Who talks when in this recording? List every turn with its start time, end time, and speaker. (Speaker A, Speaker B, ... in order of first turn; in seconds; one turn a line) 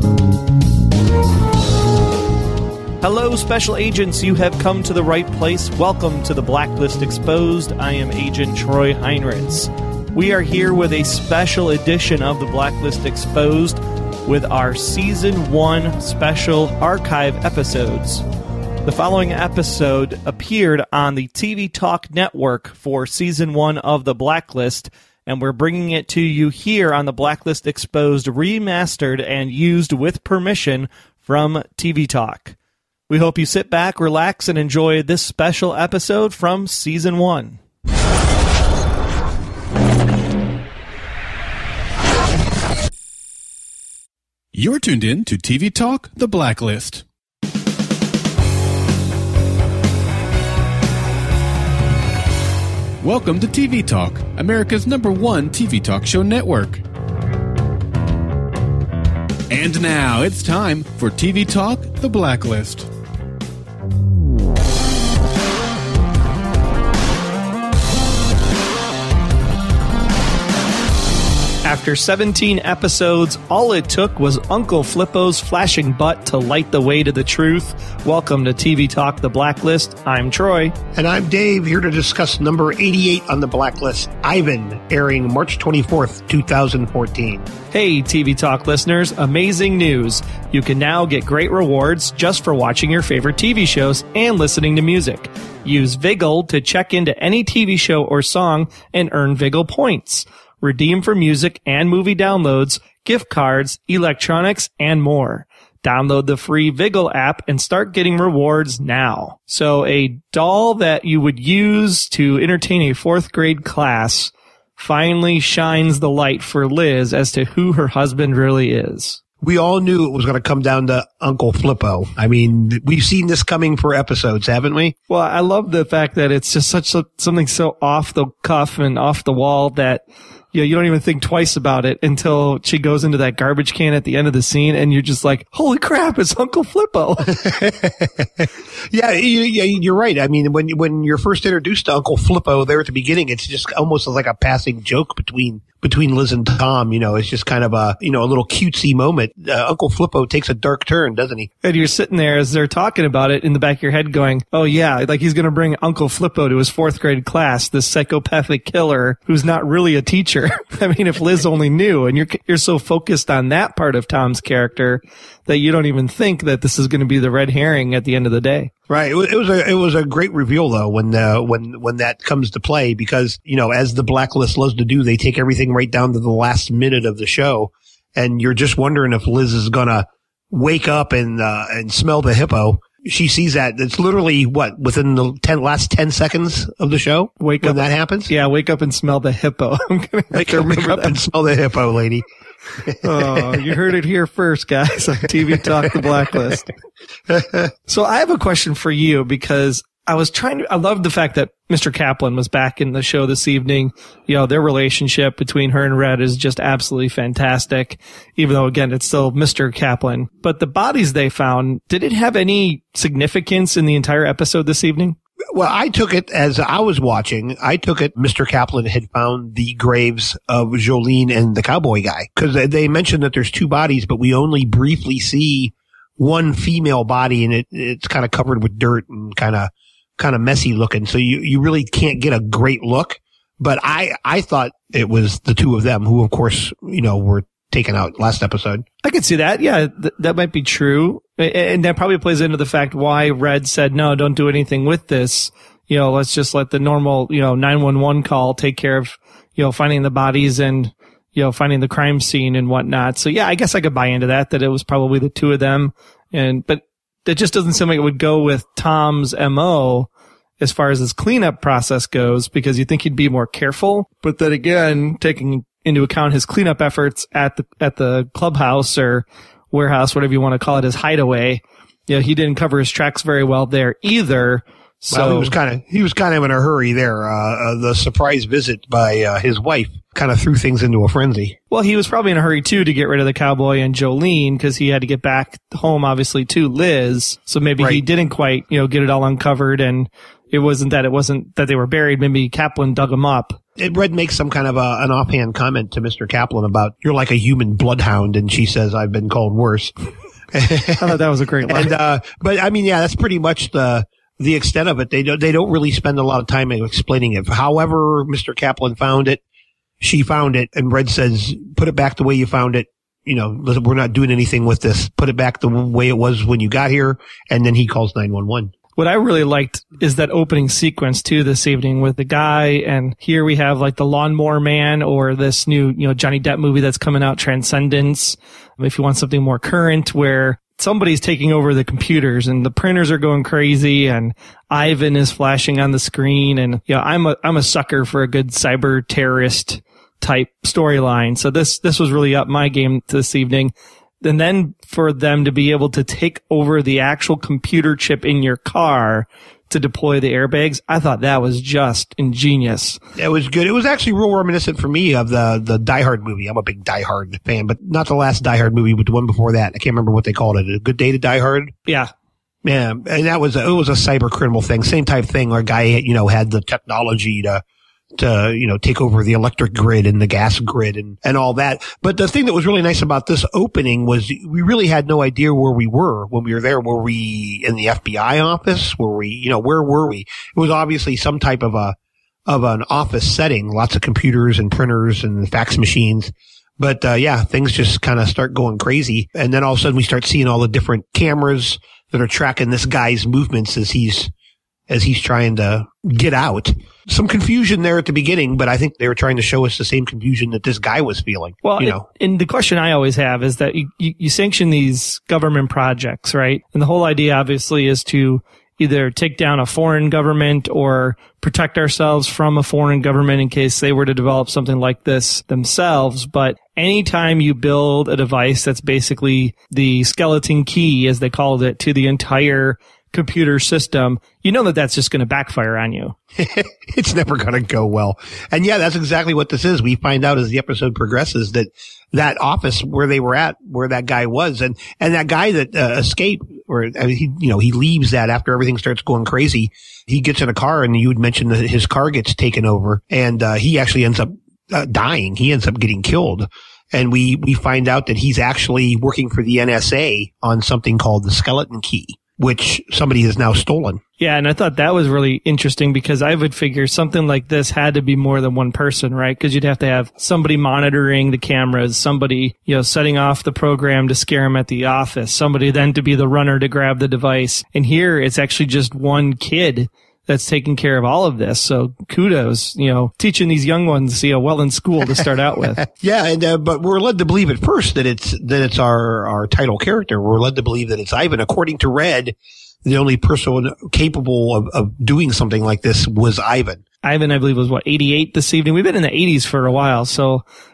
Speaker A: 3.0-18.2
Speaker A: 18.8-32.5
Speaker A: 33.1-37.6
Speaker B: 44.5-47.0
Speaker B: 53.0-56.8
Speaker B: 59.5-62.9
Speaker A: 71.6-80.7
Speaker C: 80.9-87.5
Speaker A: 87.7-119.2
Speaker C: 119.4-124.9
Speaker A: 125.1-137.4
Speaker C: 137.3-151.5
Speaker A: 151.6-168.7
Speaker C: 168.9-188.3
Speaker A: 187.4-191.2
Speaker C: 190.3-192.2
Speaker C: 192.8-193.7
Speaker A: 193.0-196.7
Speaker C: 197.3-197.7
Speaker A: 197.9-215.2
Speaker C: 215.5-238.8
Speaker A: 239.0-275.5
Speaker C: 275.1-281.6
Speaker A: 281.7-293.6
Speaker C: 293.8-299.9
Speaker C: 300.5-301.1
Speaker A: 300.9-301.9
Speaker C: 301.6-309.4
Speaker C: 310.0-318.7
Speaker A: 319.0-353.0
Speaker C: 353.1-361.7
Speaker C: 362.6-367.6
Speaker C: 368.2-381.9
Speaker C: 382.5-394.3
Speaker C: 394.9-402.1
Speaker A: 401.6-426.1
Speaker C: 426.4-454.0
Speaker A: 454.2-475.8
Speaker C: 475.8-486.8
Speaker A: 487.0-490.4